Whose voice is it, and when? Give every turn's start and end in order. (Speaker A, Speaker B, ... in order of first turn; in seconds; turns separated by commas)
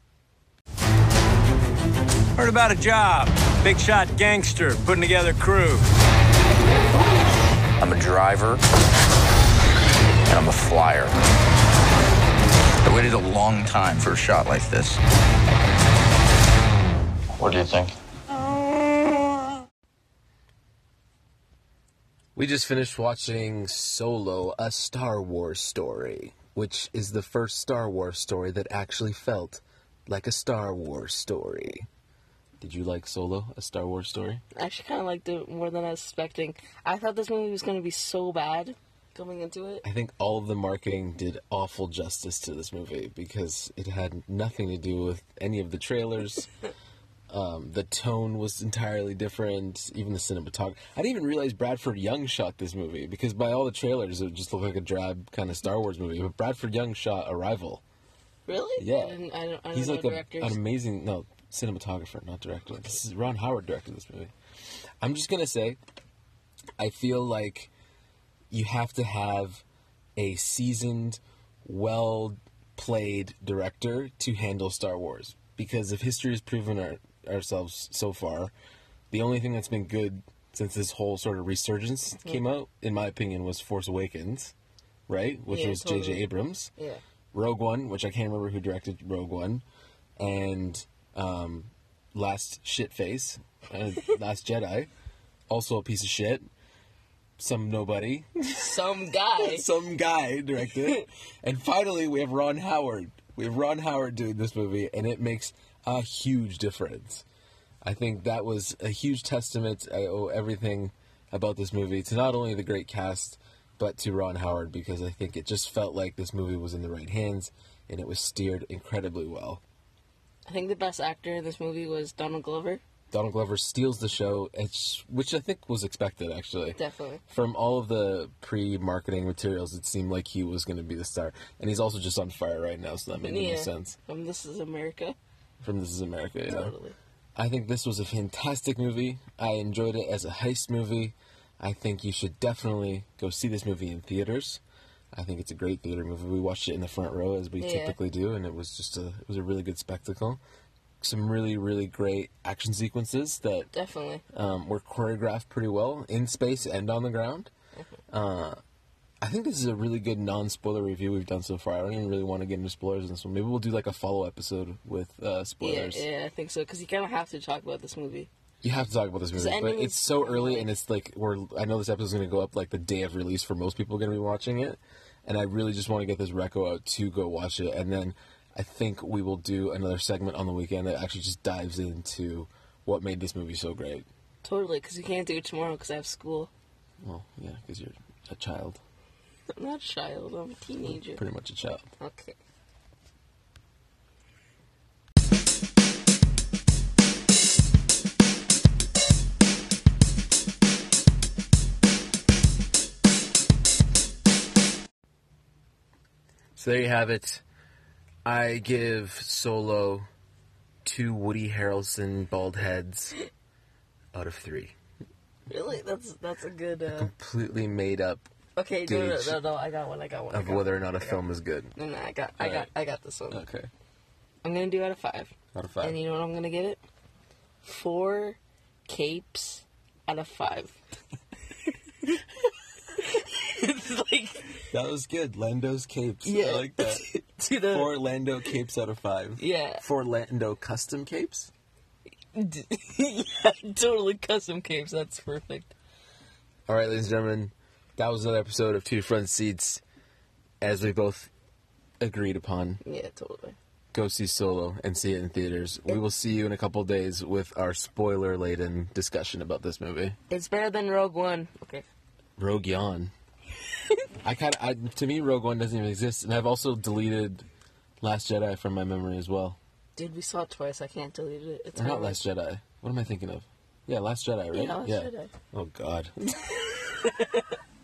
Speaker A: 2.4-5.8, Speaker B: 7.8-8.6, Speaker B: 10.3-11.1, Speaker B: 12.8-15.0, Speaker B: 17.4-17.9, Speaker C: 22.4-31.9, Speaker C: 32.6-34.4, Speaker D: 34.5-39.8, Speaker C: 39.8-46.5, Speaker C: 47.3-57.8, Speaker D: 58.5-60.6, Speaker C: 58.8-59.2, Speaker C: 59.7-64.3, Speaker C: 65.0-65.8, Speaker C: 66.8-67.7, Speaker C: 68.5-69.6, Speaker C: 70.2-78.5, Speaker C: 79.1-84.5, Speaker C: 85.1-86.7, Speaker D: 85.5-87.0, Speaker C: 87.3-89.7, Speaker C: 90.2-94.9, Speaker C: 95.5-96.5, Speaker C: 97.4-98.8, Speaker D: 98.5-99.7, Speaker C: 99.4-107.2, Speaker C: 107.8-119.6, Speaker D: 120.5-122.8, Speaker C: 123.1-134.0, Speaker D: 126.8-127.2, Speaker D: 133.2-135.2, Speaker C: 135.6-136.8, Speaker D: 136.4-136.9, Speaker C: 137.4-144.6, Speaker C: 145.1-150.4, Speaker D: 147.6-148.0, Speaker C: 151.0-153.7, Speaker D: 153.7-154.2, Speaker C: 154.3-157.5, Speaker C: 158.1-158.6, Speaker C: 159.2-166.1, Speaker D: 165.6-168.3, Speaker C: 168.6-184.1, Speaker D: 169.3-170.7, Speaker D: 184.4-186.5, Speaker C: 187.0-188.8, Speaker D: 189.5-191.2, Speaker C: 190.9-191.8, Speaker D: 192.0-192.4, Speaker C: 206.6-207.4, Speaker C: 208.2-210.1, Speaker C: 210.8-213.2, Speaker C: 214.1-214.8, Speaker D: 215.5-217.1, Speaker C: 216.9-218.2, Speaker D: 218.6-221.2, Speaker C: 218.8-219.4, Speaker C: 220.3-221.7, Speaker D: 221.8-223.5, Speaker C: 222.4-222.7, Speaker C: 223.3-223.7, Speaker D: 224.4-226.8, Speaker C: 225.5-226.0, Speaker D: 227.6-230.8, Speaker D: 232.9-234.6, Speaker C: 234.7-237.1, Speaker D: 236.2-237.9, Speaker C: 237.7-241.5, Speaker D: 239.4-239.8, Speaker D: 242.3-245.7, Speaker C: 246.7-249.8, Speaker C: 250.6-251.3, Speaker C: 252.0-252.8, Speaker D: 252.8-253.6, Speaker C: 253.9-260.2, Speaker D: 260.3-261.9, Speaker C: 262.4-263.1, Speaker C: 264.2-267.4, Speaker C: 268.0-269.6, Speaker D: 269.9-272.2, Speaker C: 271.8-276.1, Speaker D: 274.5-275.3, Speaker D: 276.7-277.3